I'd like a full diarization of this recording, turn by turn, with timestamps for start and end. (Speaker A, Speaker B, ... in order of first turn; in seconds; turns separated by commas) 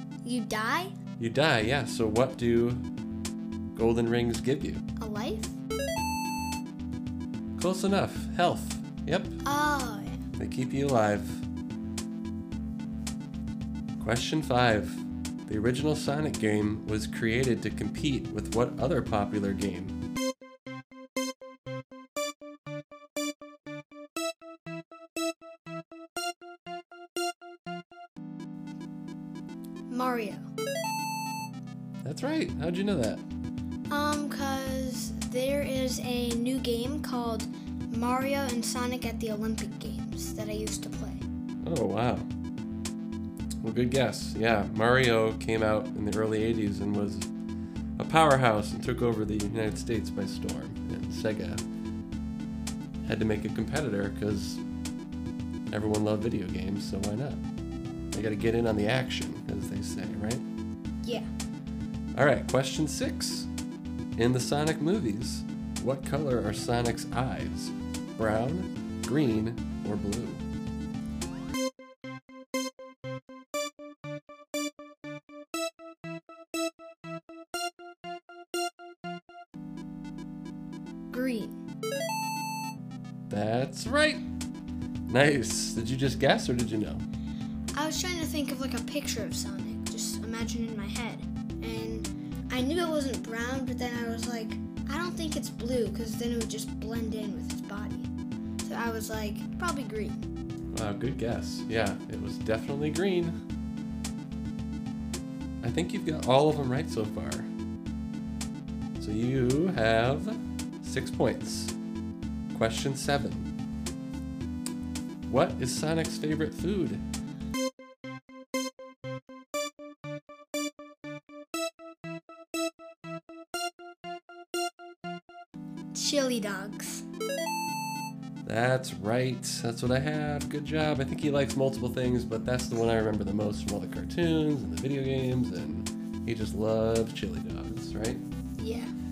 Speaker A: 0.2-0.9, Speaker B: 1.2-2.8, Speaker B: 3.7-4.8, Speaker A: 5.0-5.6, Speaker B: 7.5-9.4, Speaker A: 9.4-10.2, Speaker B: 10.4-11.5, Speaker B: 14.0-19.9, Speaker A: 29.9-30.5, Speaker B: 32.0-33.2, Speaker A: 33.9-41.2, Speaker B: 41.6-42.3, Speaker B: 43.6-47.3, Speaker B: 48.0-51.6, Speaker B: 53.0-54.6, Speaker B: 55.7-57.4, Speaker B: 58.1-60.4, Speaker B: 62.1-63.5, Speaker B: 64.2-70.4, Speaker A: 81.1-81.6, Speaker B: 83.3-84.2, Speaker B: 85.1-87.0, Speaker A: 87.7-98.1, Speaker A: 98.6-100.3, Speaker B: 100.7-103.3, Speaker B: 105.6-107.5, Speaker B: 109.0-111.8, Speaker B: 112.5-113.5, Speaker B: 115.3-117.0, Speaker A: 125.9-127.0, Speaker B: 128.4-138.2, Speaker A: 138.6-138.9